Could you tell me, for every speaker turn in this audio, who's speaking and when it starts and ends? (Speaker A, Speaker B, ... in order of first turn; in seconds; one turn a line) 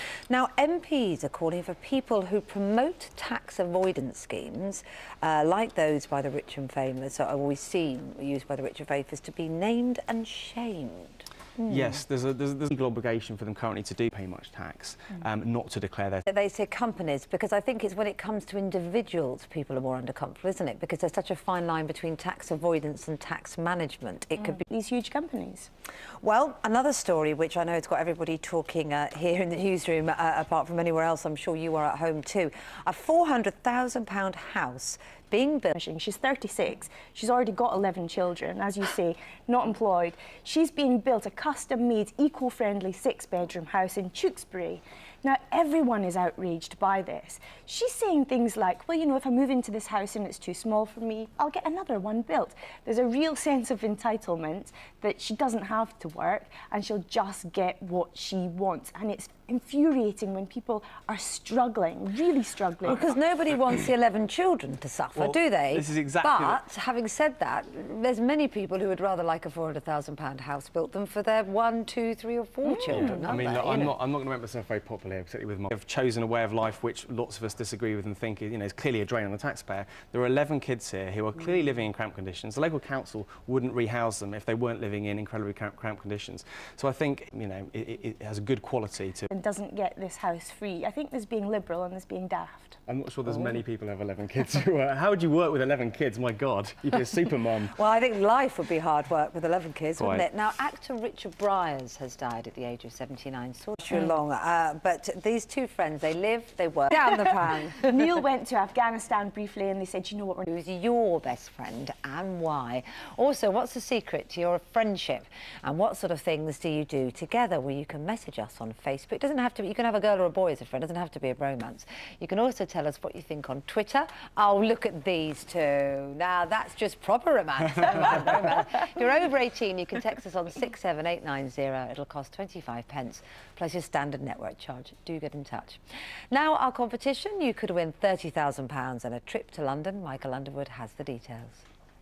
Speaker A: 0.3-12.0
Speaker B: 11.7-16.2
Speaker A: 16.2-24.6
Speaker C: 24.6-25.7
Speaker A: 26.2-35.8
Speaker C: 35.7-63.1
Speaker A: 62.8-74.0
Speaker B: 65.1-66.6
Speaker C: 72.6-73.2
Speaker B: 72.9-89.3
Speaker C: 89.3-92.8
Speaker B: 92.9-97.8
Speaker A: 97.8-108.0
Speaker B: 100.0-100.3
Speaker C: 107.8-110.5
Speaker A: 110.5-141.6